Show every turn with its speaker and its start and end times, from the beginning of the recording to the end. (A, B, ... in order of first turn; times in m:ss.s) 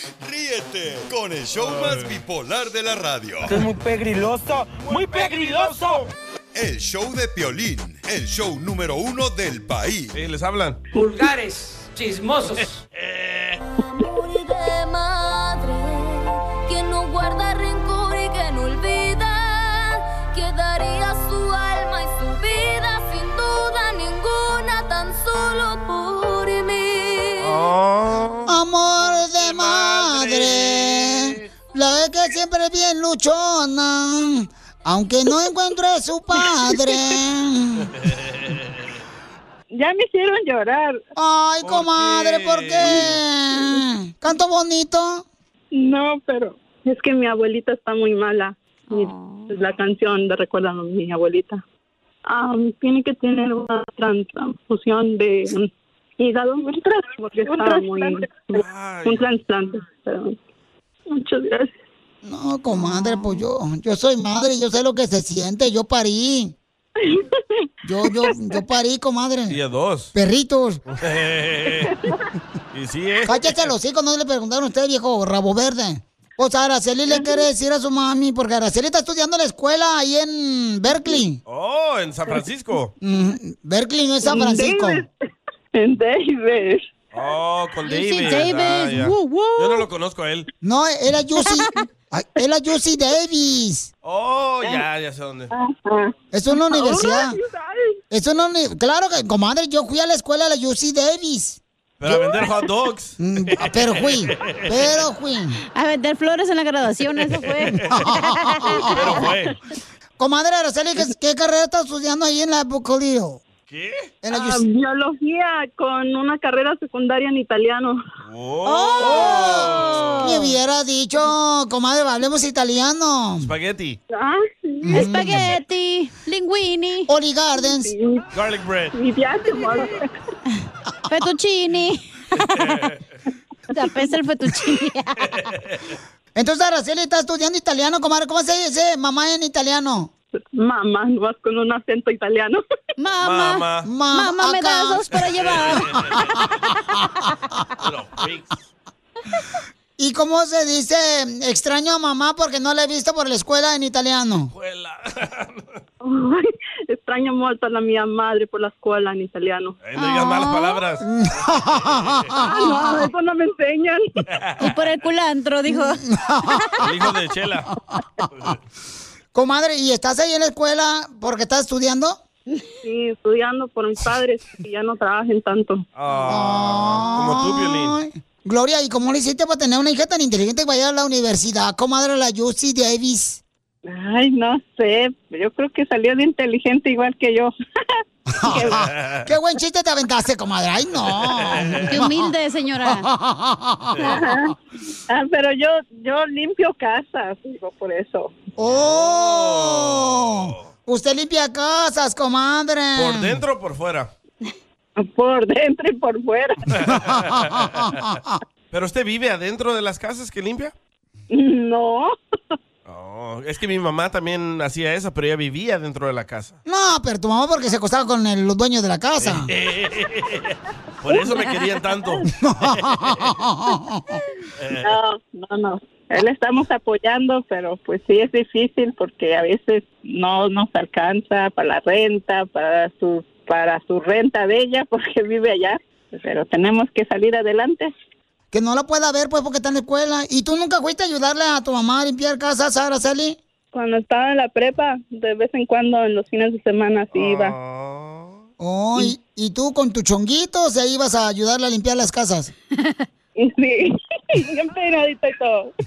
0:00.2-0:03.6 A
0:01.6-0:02.2 B
0:03.4-0:06.1 C
0:04.8-0:06.1 B
0:06.6-0:10.2 A
0:10.1-0:10.8 B
0:10.9-0:12.8 C
0:12.6-0:13.6 B
0:14.2-0:27.5 D
0:27.4-0:31.5 B
0:28.4-0:37.9 E
0:38.0-0:39.0 B
0:39.7-0:41.0 F
0:41.2-0:45.2 E
0:41.6-0:43.2 B
0:45.7-0:51.6 F
0:48.9-0:49.5 G
0:52.3-1:00.4 F
0:58.5-0:59.3 B
1:01.1-1:01.7 F
1:02.2-1:06.6 E
1:02.7-1:03.4 G
1:07.0-1:07.2 F
1:07.8-1:09.6 E
1:08.2-1:08.6 F
1:09.5-1:10.1 B
1:10.1-1:10.8 E
1:10.9-1:11.9 B
1:11.8-1:12.2 F
1:12.7-1:13.7 B
1:13.2-1:21.4 E
1:21.4-1:22.9 B
1:23.0-1:25.0 E
1:24.2-1:25.1 F
1:25.7-1:26.8 F
1:27.1-1:30.5 B
1:27.8-1:29.8 G
1:30.6-1:33.9 E
1:34.0-1:35.5 B
1:35.5-1:38.0 F
1:36.3-1:37.4 E
1:38.1-1:41.6 E
1:42.0-1:45.0 B
1:43.2-1:45.6 E
1:45.7-1:48.9 G
1:47.4-1:47.9 B
1:47.8-1:49.3 E
1:48.9-1:49.5 B
1:50.2-1:53.4 E
1:53.7-1:54.1 B
1:54.2-1:54.6 E
1:54.3-1:58.0 F
1:58.2-2:00.5 B
1:58.6-2:00.4 G
1:59.0-2:03.5 E
2:03.4-2:04.0 B
2:04.1-2:05.1 F
2:04.8-2:05.6 E
2:04.9-2:07.1 G
2:07.1-2:07.9 E
2:07.6-2:08.3 F
2:08.3-2:09.0 B
2:08.9-2:10.1 F
2:11.1-2:12.8 G
2:12.5-2:13.0 B
2:13.7-2:15.3 G
2:15.3-2:15.9 B
2:16.3-2:20.1 E
2:20.5-2:22.6 F
2:23.0-2:25.9 G
2:23.2-2:23.9 B
2:23.8-2:25.1 E
2:25.4-2:26.5 B
2:25.8-2:26.4 E
2:27.8-2:28.5 B
2:30.0-2:34.5 E
2:34.5-2:35.8 B
2:36.0-2:39.8 F
2:39.8-2:41.0 B
2:40.0-2:40.8 G
2:41.0-2:42.9 E
2:41.8-2:42.3 B
2:42.5-2:44.2 F
2:44.3-2:44.7 B
2:44.6-2:46.0 G
2:45.7-2:46.9 E
2:46.8-2:47.7 B
2:49.3-2:52.2 E
2:52.8-2:55.8 F
2:56.0-2:58.0 B
2:56.2-3:03.4 E
3:03.8-3:07.5 F
3:08.4-3:14.2 E
3:08.4-3:08.8 F
3:08.7-3:09.3 B
3:11.1-3:11.9 B
3:11.9-3:13.1 G
3:13.9-3:14.2 B
3:14.1-3:14.6 F
3:15.1-3:18.3 F
3:18.6-3:23.4 E
3:18.6-3:20.7 B
3:23.0-3:24.1 B
3:25.0-3:26.7 F
3:26.8-3:28.0 B
3:26.9-3:28.4 E
3:28.7-3:30.7 B
3:31.3-3:32.1 F
3:32.8-3:36.6 B
3:36.6-3:39.5 E
3:39.2-3:42.2 B
3:42.3-3:44.2 E
3:42.9-3:43.2 B
3:44.6-3:44.9 B
3:44.8-3:57.9 F
3:58.5-4:03.4 E
4:03.7-4:07.6 F
4:07.1-4:08.4 B
4:08.6-4:12.5 E
4:12.8-4:13.0 G
4:13.4-4:15.7 F